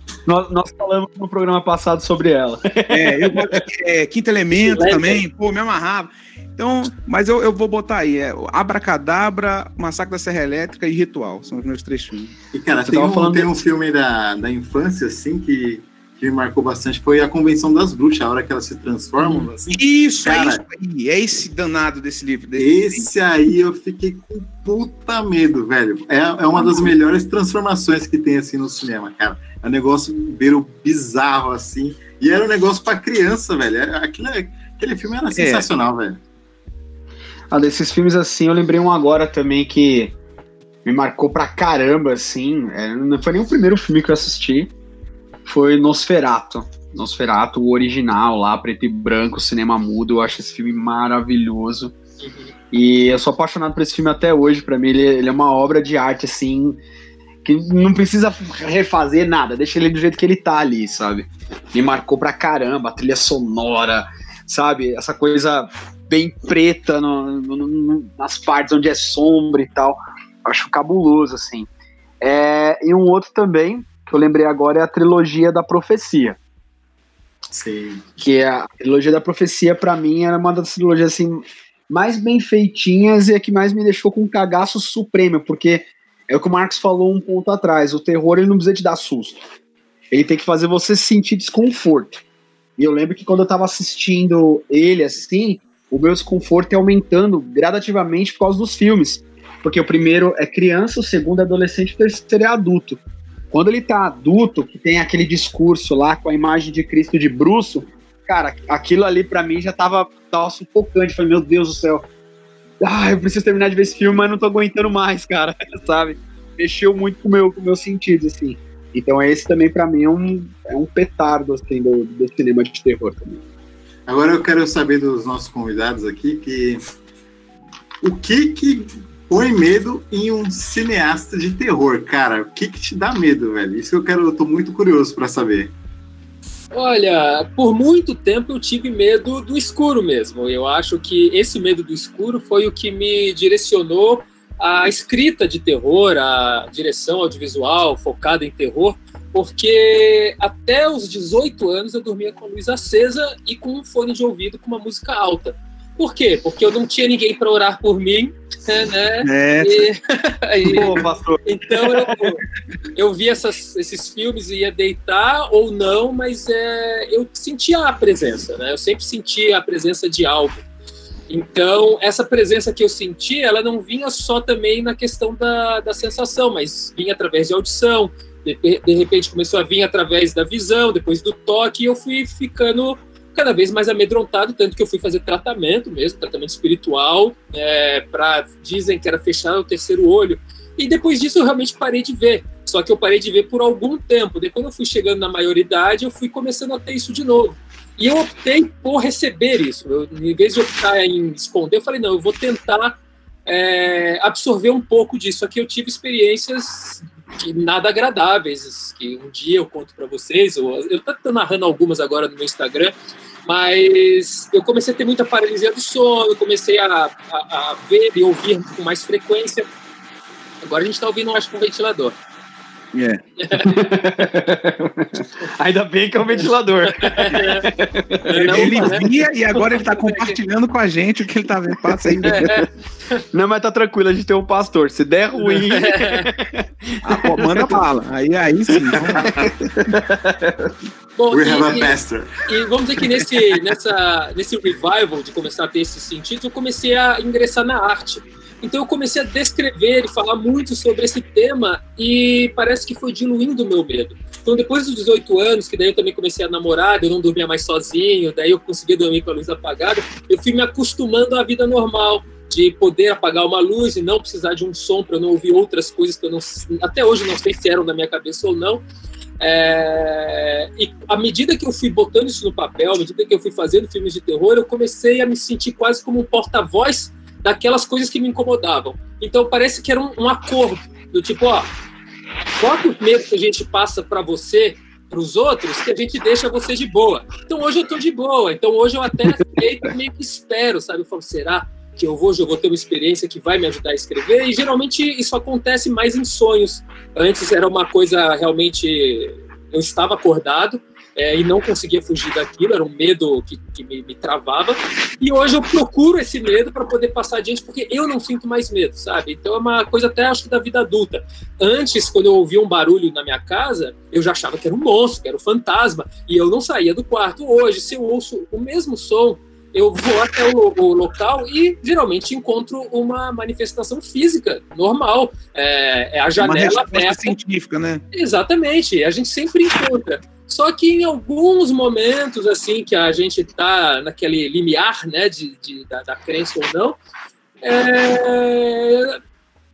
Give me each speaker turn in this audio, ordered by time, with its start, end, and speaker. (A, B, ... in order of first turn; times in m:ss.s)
0:00.3-0:03.6 A
0:02.9-0:12.3 B
0:04.6-0:05.2 C
0:12.5-0:20.6 D
0:12.8-0:13.6 A
0:19.7-0:23.1 B
0:22.6-0:36.2 D
0:26.6-0:26.8 A
0:35.4-0:35.7 B
0:37.5-0:40.2 A
0:40.8-0:44.7 A
0:45.5-0:51.9 A
0:52.2-0:52.5 C
0:52.7-0:56.8 A
0:57.4-1:11.7 A
1:12.2-1:16.4 A
1:17.5-1:18.0 D
1:18.2-1:29.4 A
1:30.1-1:32.2 A
1:32.8-1:52.1 A
1:52.8-2:03.4 A
2:04.1-2:06.8 D
2:08.0-2:15.7 D
2:16.7-2:42.4 C
2:39.2-2:39.8 B
2:40.7-2:41.4 A
2:43.0-2:50.6 C
2:51.3-3:32.9 C
3:33.5-3:39.7 C
3:40.6-3:42.2 C
3:42.9-3:43.2 B
3:43.4-3:43.9 C
3:43.7-3:49.0 A
3:46.8-3:47.6 C
3:48.3-3:50.4 C
3:48.4-3:52.6 B
3:51.9-3:52.5 A
3:52.3-3:53.2 C
3:53.3-3:57.8 A
3:55.4-3:56.3 C
3:57.0-3:59.3 B
3:58.9-3:59.5 D
3:59.2-4:00.7 A
4:01.2-4:28.8 C
4:01.3-4:02.4 D
4:29.4-4:41.7 C
4:42.6-5:27.4 C
5:26.4-5:28.0 B
5:28.1-5:37.0 C
5:37.6-5:39.2 C